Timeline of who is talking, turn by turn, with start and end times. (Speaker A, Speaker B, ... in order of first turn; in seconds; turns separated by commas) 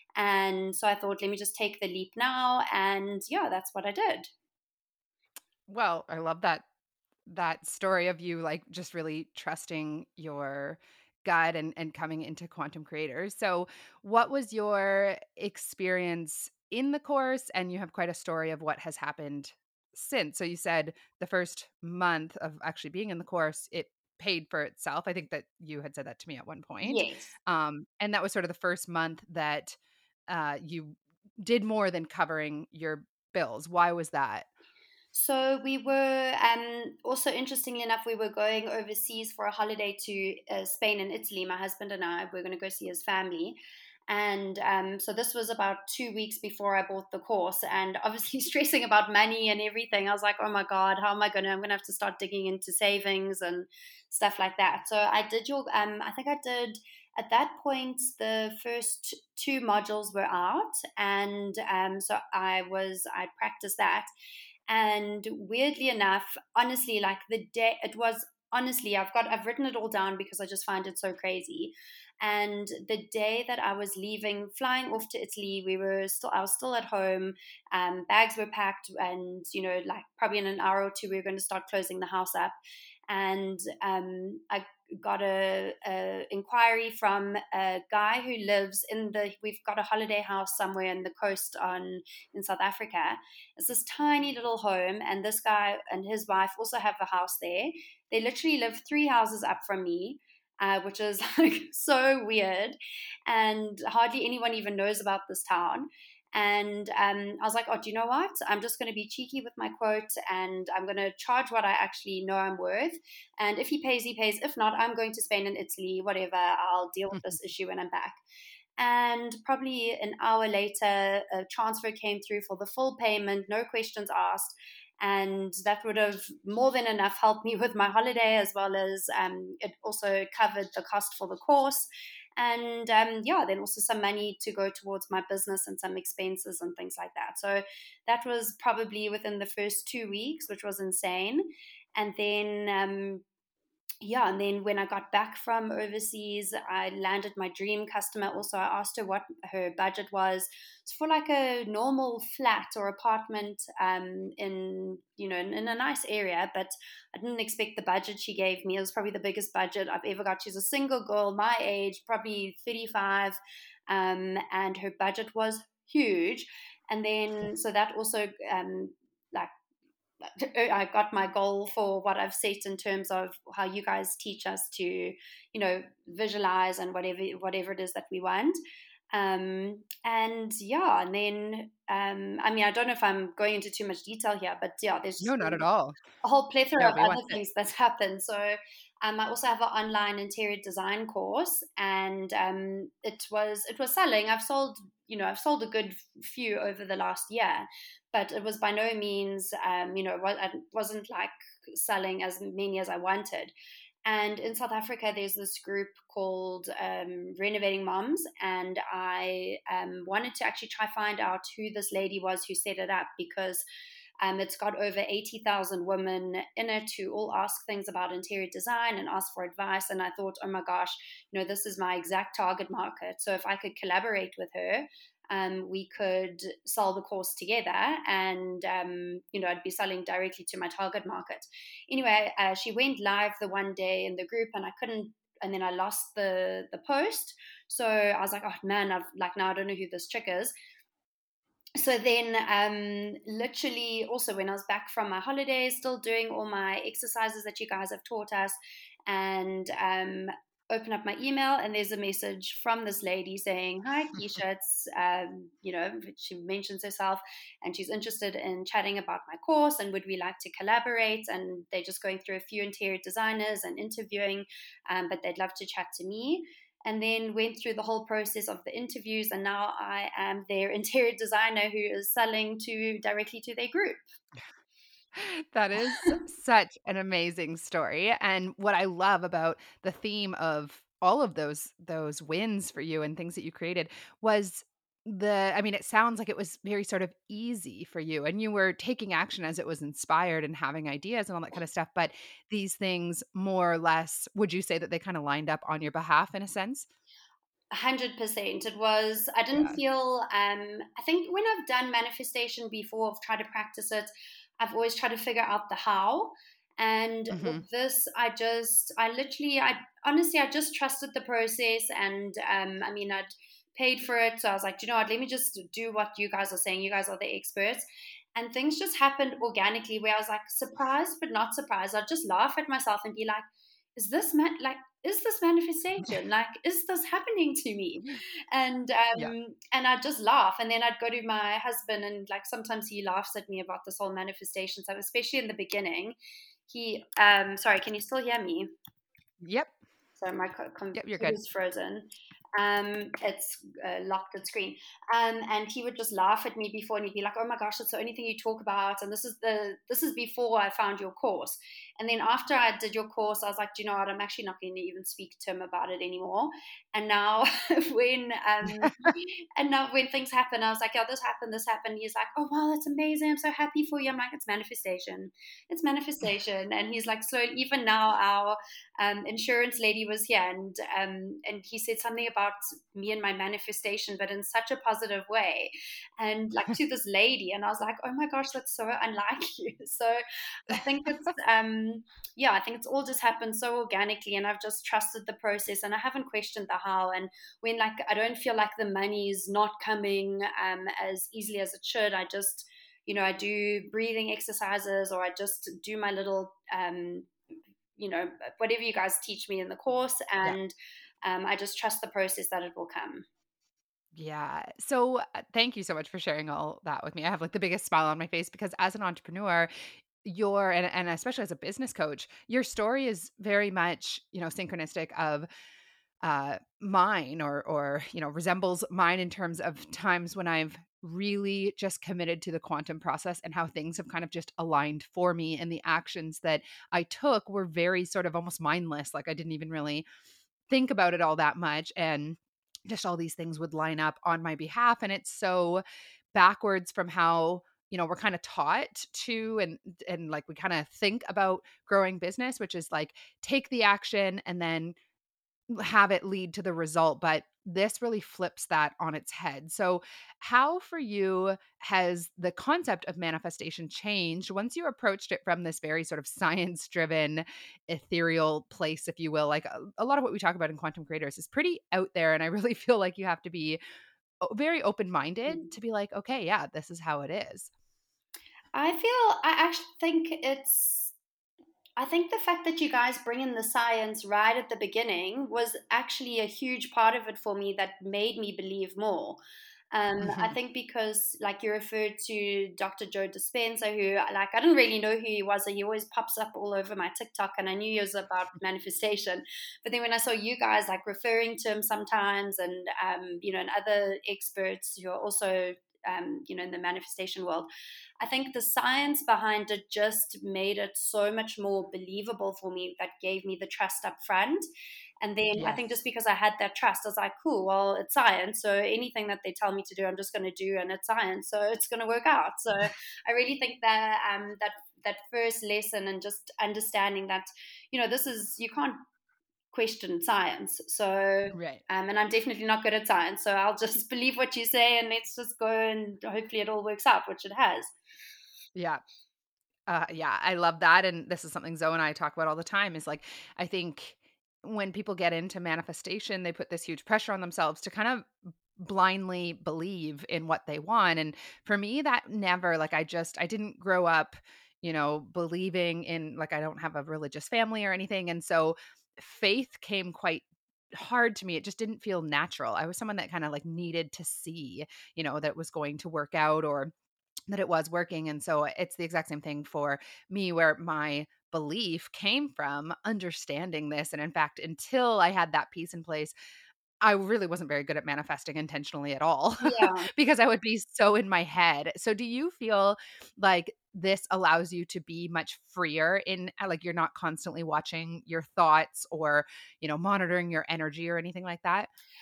Speaker A: 0.1-4.3, Speaker B: 5.7-6.6, Speaker B: 7.3-29.8, Speaker A: 26.8-27.3, Speaker B: 30.3-34.5, Speaker A: 35.1-43.6, Speaker A: 44.1-64.1, Speaker A: 64.7-82.5, Speaker A: 83.1-118.2, Speaker A: 118.8-143.2, Speaker A: 144.0-169.5, Speaker A: 170.2-178.6, Speaker A: 179.1-185.6, Speaker B: 185.2-186.0, Speaker A: 186.2-203.5, Speaker B: 186.8-187.4, Speaker A: 204.0-213.6, Speaker A: 214.2-240.5, Speaker A: 241.8-274.0, Speaker B: 275.1-296.9, Speaker A: 275.8-276.2, Speaker A: 297.7-317.8, Speaker B: 299.5-299.8, Speaker B: 307.3-307.6, Speaker A: 318.3-323.4, Speaker A: 323.9-336.2, Speaker A: 336.7-338.7, Speaker B: 339.4-339.7, Speaker A: 340.2-397.3, Speaker B: 340.9-341.4, Speaker B: 358.8-359.1, Speaker A: 398.0-403.2, Speaker B: 404.1-409.7, Speaker B: 410.2-415.5, Speaker B: 416.2-430.0, Speaker B: 430.7-444.9, Speaker B: 445.7-463.8, Speaker B: 464.4-467.7, Speaker A: 468.7-471.1, Speaker A: 472.0-479.4, Speaker A: 479.9-497.7, Speaker B: 480.2-480.5, Speaker A: 498.2-504.6, Speaker A: 505.2-519.0, Speaker B: 505.6-505.8, Speaker A: 519.7-527.9, Speaker B: 521.5-521.8, Speaker B: 528.8-529.0, Speaker B: 529.9-556.9, Speaker B: 557.5-566.3, Speaker B: 567.0-581.9, Speaker A: 569.6-570.1